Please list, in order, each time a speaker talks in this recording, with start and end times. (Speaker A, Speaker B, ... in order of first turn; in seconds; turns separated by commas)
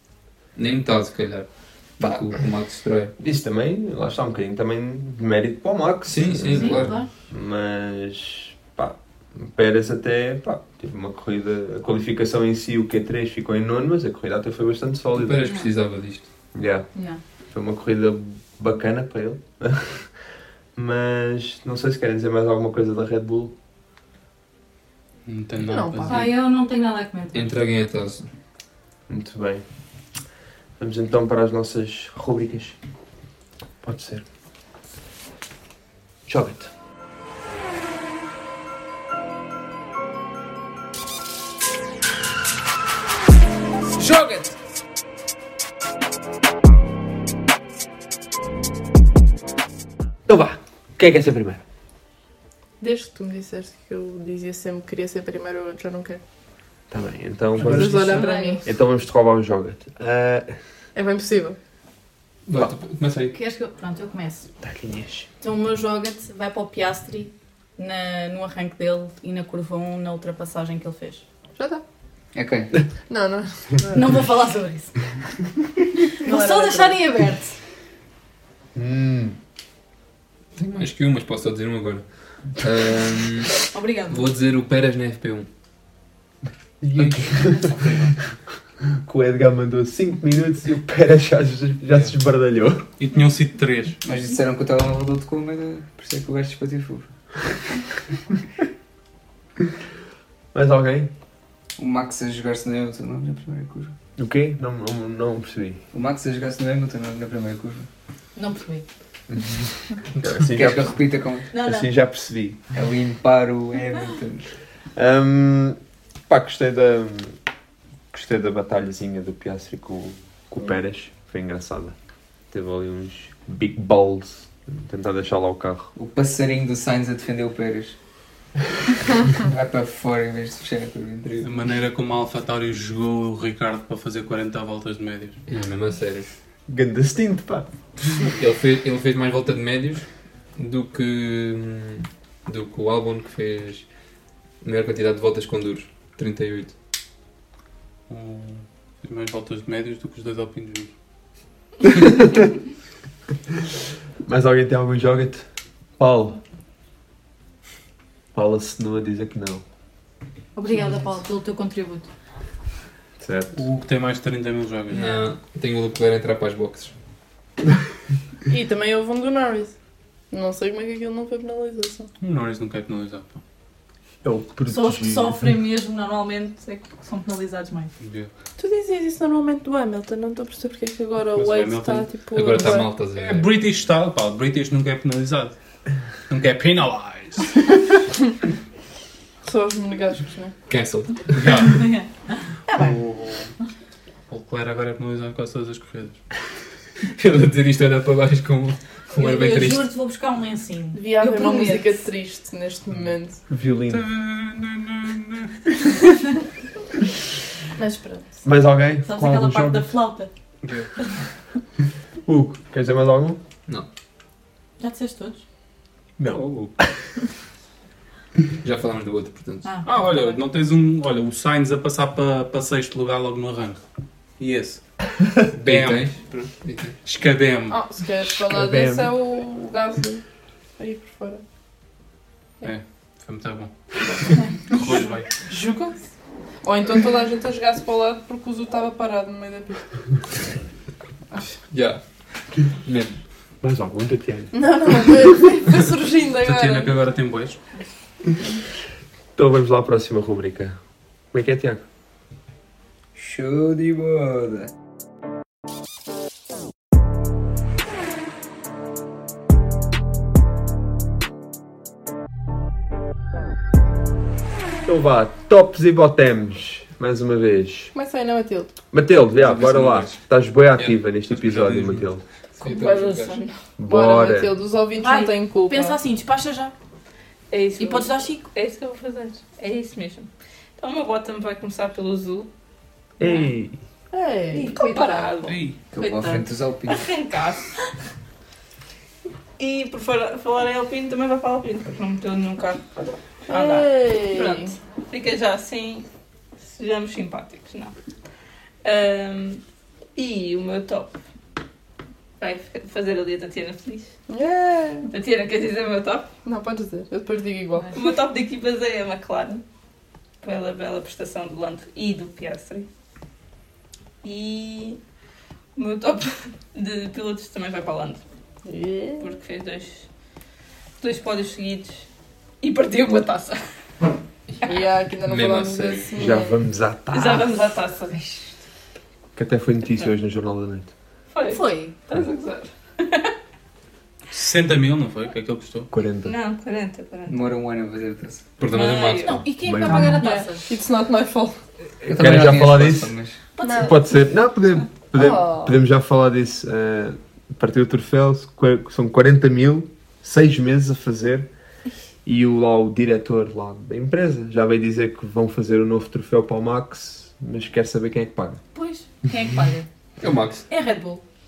Speaker A: 0.6-3.1, Speaker B: 2.0-2.3, Speaker B: 3.2-15.5, Speaker A: 6.1-7.0, Speaker C: 6.5-7.1, Speaker A: 15.1-16.3, Speaker B: 16.5-16.9, Speaker C: 16.9-17.2, Speaker B: 17.5-20.2, Speaker B: 20.8-23.6, Speaker D: 25.3-26.3, Speaker E: 25.6-26.2, Speaker C: 26.0-27.6, Speaker A: 27.3-28.3, Speaker B: 29.1-29.6, Speaker B: 30.8-32.8, Speaker B: 33.8-34.2, Speaker B: 36.3-36.7, Speaker D: 44.0-44.5, Speaker B: 50.3-51.6, Speaker E: 52.8-56.2, Speaker B: 56.9-60.5, Speaker E: 57.6-58.6, Speaker C: 57.6-58.7, Speaker E: 61.0-61.6, Speaker A: 62.5-63.4, Speaker C: 63.3-64.5, Speaker B: 64.6-65.3, Speaker C: 65.4-71.2, Speaker E: 71.6-71.8, Speaker F: 72.3-72.7, Speaker E: 73.1-74.0, Speaker C: 73.9-75.0, Speaker C: 76.2-77.6, Speaker E: 76.2-77.0, Speaker B: 78.8-79.4, Speaker A: 80.5-85.5, Speaker C: 83.7-84.3, Speaker B: 86.8-87.8, Speaker A: 87.0-87.4, Speaker D: 87.7-88.2, Speaker B: 89.0-92.9, Speaker D: 93.0-94.0, Speaker F: 94.0-97.1, Speaker B: 100.5-101.1, Speaker F: 101.8-103.9, Speaker B: 104.2-105.8, Speaker F: 105.9-107.9, Speaker C: 108.4-108.8, Speaker B: 110.2-111.0, Speaker F: 110.4-111.5, Speaker C: 111.5-111.9, Speaker B: 111.5-112.6, Speaker F: 112.7-114.5, Speaker B: 115.0-117.4, Speaker B: 118.1-122.0, Speaker B: 122.5-125.9, Speaker F: 126.0-128.0, Speaker F: 129.3-131.5, Speaker D: 131.4-135.4, Speaker A: 135.5-136.3, Speaker B: 136.7-137.7, Speaker A: 138.4-143.9, Speaker A: 144.6-146.8, Speaker D: 148.1-150.9, Speaker B: 154.2-156.4, Speaker B: 158.3-159.6, Speaker C: 160.6-162.1, Speaker B: 163.2-163.6, Speaker D: 163.6-165.1, Speaker A: 164.9-166.9, Speaker E: 168.5-169.7, Speaker E: 170.3-172.1, Speaker D: 172.2-173.4, Speaker B: 174.2-175.4, Speaker C: 174.7-177.9, Speaker D: 178.0-178.3, Speaker E: 178.6-182.9, Speaker D: 181.3-185.6, Speaker A: 182.3-183.5, Speaker D: 186.3-187.8, Speaker E: 189.4-190.5, Speaker A: 190.7-191.7, Speaker D: 191.4-191.8, Speaker C: 191.7-192.4, Speaker D: 192.7-193.5, Speaker D: 194.3-196.2, Speaker A: 197.2-199.9, Speaker C: 199.1-202.0, Speaker E: 200.9-203.4, Speaker B: 203.5-204.1, Speaker D: 203.9-205.6, Speaker E: 207.8-208.3, Speaker B: 208.4-209.9, Speaker C: 209.1-210.3, Speaker D: 210.6-210.9, Speaker B: 212.3-213.4, Speaker C: 214.8-215.4, Speaker B: 216.2-216.9, Speaker D: 216.4-216.7, Speaker A: 218.6-219.8, Speaker C: 219.6-220.4, Speaker D: 219.8-223.8, Speaker D: 224.4-224.8, Speaker A: 225.6-226.9, Speaker D: 225.6-226.5, Speaker D: 227.0-227.8, Speaker E: 227.7-230.2, Speaker B: 228.3-229.2, Speaker E: 230.8-231.4, Speaker D: 232.6-233.7, Speaker D: 234.7-235.3, Speaker E: 235.5-236.0, Speaker E: 236.6-239.8, Speaker A: 241.7-242.0, Speaker A: 242.7-243.2, Speaker B: 243.6-245.3, Speaker E: 244.5-246.9, Speaker D: 246.4-247.6, Speaker B: 249.4-250.8, Speaker B: 251.3-251.8, Speaker F: 253.2-254.7, Speaker B: 264.9-267.9, Speaker E: 267.9-268.7, Speaker B: 268.9-272.2, Speaker D: 269.4-270.1, Speaker D: 271.3-272.1, Speaker A: 272.6-273.4, Speaker G: 272.6-273.5, Speaker C: 272.9-273.2, Speaker B: 273.8-274.6, Speaker E: 273.9-276.0, Speaker C: 275.0-276.7, Speaker G: 277.5-282.5, Speaker C: 277.8-278.5, Speaker B: 283.2-283.8, Speaker E: 284.1-285.1, Speaker C: 284.6-285.5, Speaker G: 284.7-285.6, Speaker D: 285.5-285.8, Speaker F: 285.9-287.0, Speaker C: 286.0-286.4, Speaker G: 286.9-287.7, Speaker G: 289.6-292.8, Speaker G: 293.5-296.1, Speaker E: 293.5-294.7, Speaker G: 296.6-297.9, Speaker G: 298.8-299.6, Speaker G: 300.2-301.2, Speaker G: 302.4-304.1, Speaker E: 304.3-305.1, Speaker G: 305.1-306.3, Speaker E: 306.4-307.9, Speaker G: 307.9-309.6, Speaker G: 310.4-312.9, Speaker G: 314.2-315.0, Speaker G: 315.8-318.2, Speaker E: 318.7-319.3, Speaker G: 319.2-320.1, Speaker G: 321.0-322.0, Speaker G: 322.6-323.6, Speaker E: 324.6-326.6, Speaker A: 325.2-326.1, Speaker B: 326.2-327.5, Speaker G: 327.1-328.4, Speaker B: 329.4-330.9, Speaker G: 331.3-333.3, Speaker C: 331.5-332.0, Speaker D: 334.3-335.9, Speaker B: 335.9-336.4, Speaker G: 336.2-337.4, Speaker F: 337.3-338.5, Speaker A: 338.6-339.4, Speaker G: 338.7-339.4, Speaker C: 339.2-340.7, Speaker B: 339.5-340.2, Speaker E: 339.9-341.6, Speaker F: 342.0-343.4, Speaker B: 342.1-343.1, Speaker C: 343.6-344.0, Speaker E: 343.6-343.9, Speaker B: 343.7-351.5, Speaker E: 345.1-345.8, Speaker B: 352.3-358.6, Speaker C: 358.7-359.9, Speaker A: 360.2-360.6, Speaker C: 360.7-361.2